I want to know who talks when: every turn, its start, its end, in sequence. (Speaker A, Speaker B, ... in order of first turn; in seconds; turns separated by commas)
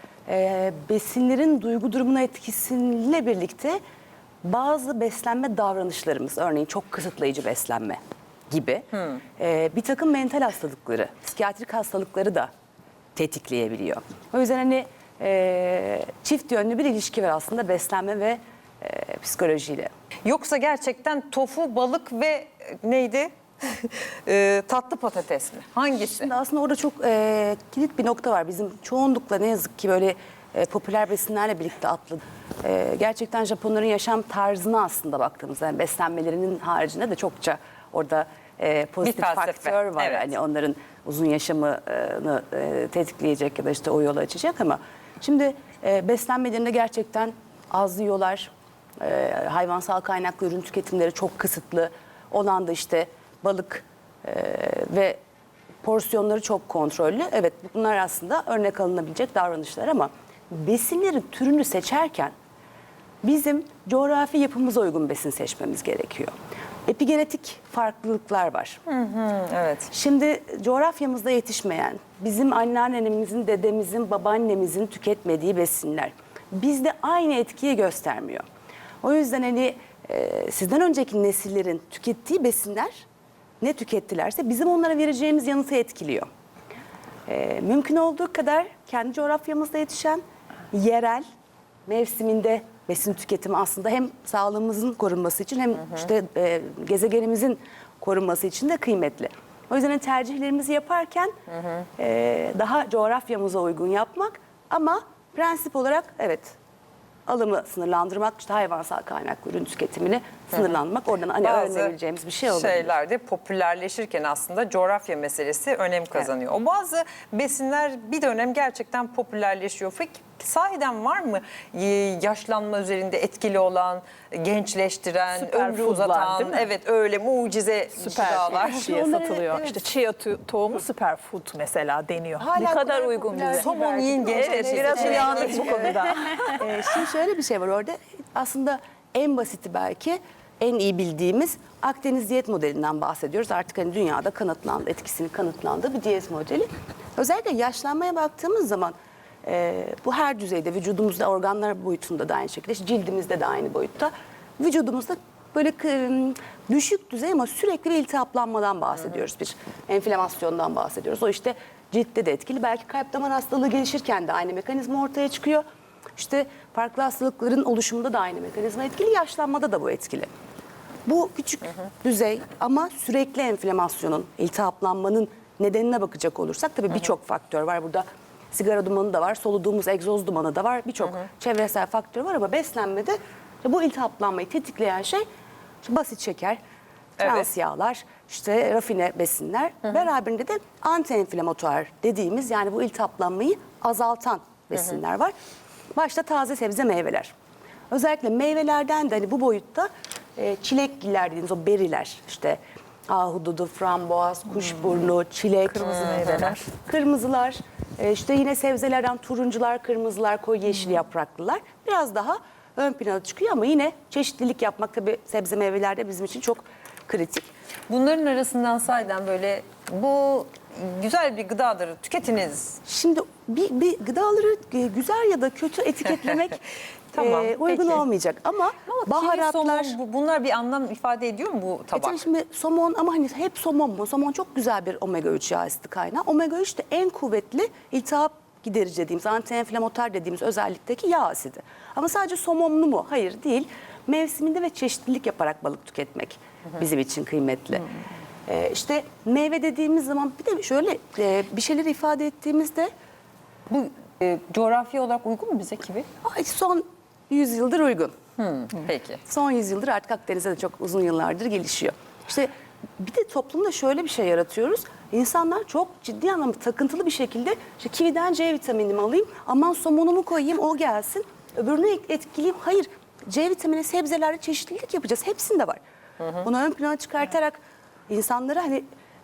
Speaker A: 0.2-3.8, Speaker A: 4.4-12.5, Speaker A: 13.1-19.9, Speaker B: 20.2-26.3, Speaker A: 26.0-55.2, Speaker B: 39.0-40.3, Speaker A: 55.8-62.3, Speaker A: 63.2-66.3, Speaker A: 66.9-68.8, Speaker B: 68.9-69.9, Speaker A: 69.9-78.4, Speaker A: 79.0-83.0, Speaker A: 83.6-86.3, Speaker A: 87.3-91.2, Speaker A: 91.8-101.3, Speaker A: 102.0-106.5, Speaker A: 107.3-112.9, Speaker B: 111.4-111.9, Speaker B: 112.5-129.0, Speaker C: 125.3-126.7, Speaker C: 128.0-136.7, Speaker A: 128.5-129.8, Speaker A: 132.4-165.6, Speaker B: 133.5-135.9, Speaker A: 166.1-170.3, Speaker A: 171.1-185.2, Speaker A: 185.8-186.6, Speaker A: 187.2-195.3, Speaker A: 195.9-197.3, Speaker A: 197.9-217.5, Speaker B: 206.2-206.5, Speaker B: 217.9-222.8, Speaker A: 222.8-226.6, Speaker A: 227.1-230.0, Speaker B: 227.1-228.0, Speaker B: 228.9-232.2, Speaker A: 231.9-247.9, Speaker A: 248.5-252.9, Speaker B: 253.7-256.1, Speaker A: 256.2-258.1, Speaker B: 258.4-259.2, Speaker A: 259.2-278.8